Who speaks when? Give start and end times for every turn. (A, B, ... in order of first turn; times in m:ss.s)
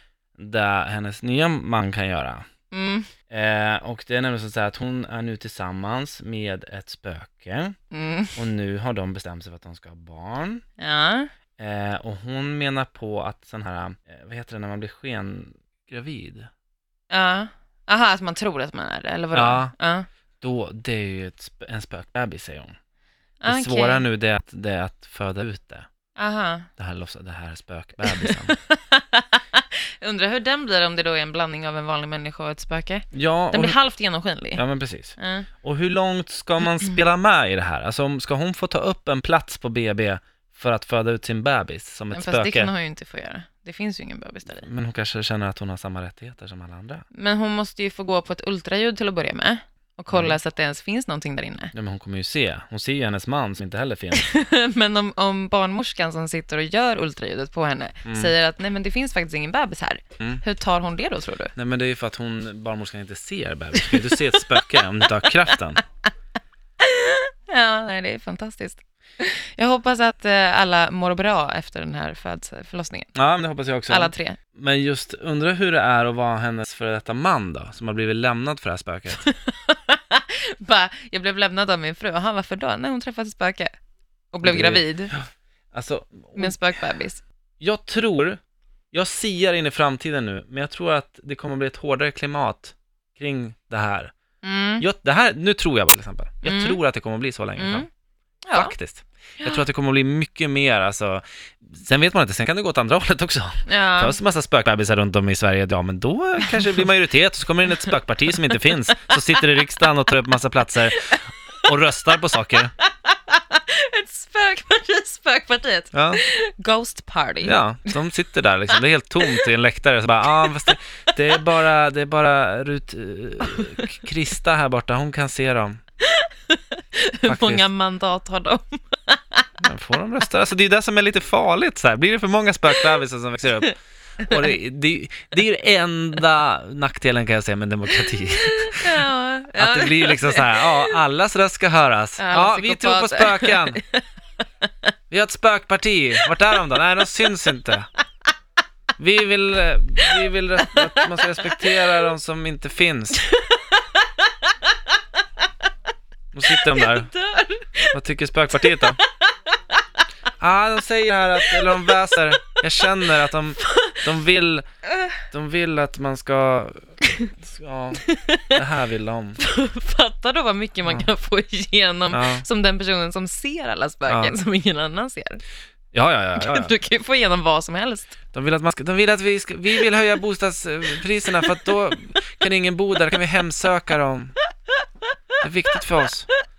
0:00.4-0:02.4 A
0:02.7-0:03.1 B
0:03.3-0:07.7 A
0:07.9-0:08.4 B
0:08.3-0:10.6 A
0:10.8-0:11.3 B
0:11.6-0:16.5 A
0:17.1-0:20.1 B
0:19.3-0:19.7 A
0:20.4-0:22.8 A
0:23.4-0:24.0 B
0:23.4-0:25.9 A
0:26.2-0:26.7 B
0:26.8-0:28.5 A
0:28.1-0:34.6 B
0:33.1-0:33.8 A
0:34.5-0:42.7 A
0:35.2-0:35.5 B
0:42.1-0:44.7 B
0:44.5-0:47.0 A
0:47.1-0:51.7 B
0:50.1-0:50.4 A
0:51.7-0:54.3 A
0:54.1-1:01.5 B
0:58.0-0:58.3 A
1:01.5-1:05.8 A
1:03.8-1:04.9 B
1:06.8-1:13.1 B
1:13.1-1:19.2 A
1:13.9-1:14.4 B
1:19.2-1:23.7 B
1:24.3-1:25.1 B
1:24.4-1:26.8 A
1:26.4-1:27.2 B
1:27.6-1:28.4 A
1:28.9-1:34.1 A
1:34.4-1:34.8 B
1:34.8-1:37.8 A
1:36.4-1:36.8 B
1:37.6-1:37.9 B
1:38.4-1:38.7 B
1:38.5-1:52.7 A
1:43.7-1:44.2 B
1:52.8-1:58.0 B
1:55.9-1:56.2 A
1:57.4-2:05.8 A
1:58.7-1:59.5 B
2:00.4-2:00.7 B
2:03.5-2:03.9 B
2:06.0-2:09.5 B
2:07.2-2:07.6 A
2:09.6-2:19.0 A
2:18.5-2:21.0 B
2:19.6-2:23.8 A
2:22.2-2:24.0 B
2:25.1-2:27.9 A
2:29.0-2:33.2 A
2:30.6-2:31.6 B
2:33.2-2:34.9 B
2:36.3-2:37.1 A
2:36.5-2:38.0 B
2:37.9-2:39.0 A
2:38.5-2:39.8 B
2:40.4-2:44.6 A
2:41.5-2:41.8 B
2:42.8-2:43.1 B
2:43.6-2:44.0 B
2:45.3-2:49.4 A
2:48.0-2:48.6 B
2:49.4-2:55.4 B
2:52.1-2:52.4 A
2:54.1-2:54.3 A
2:55.9-2:56.7 A
2:56.3-2:58.2 B
2:58.3-3:04.3 A
3:01.4-3:01.7 B
3:05.4-3:06.3 A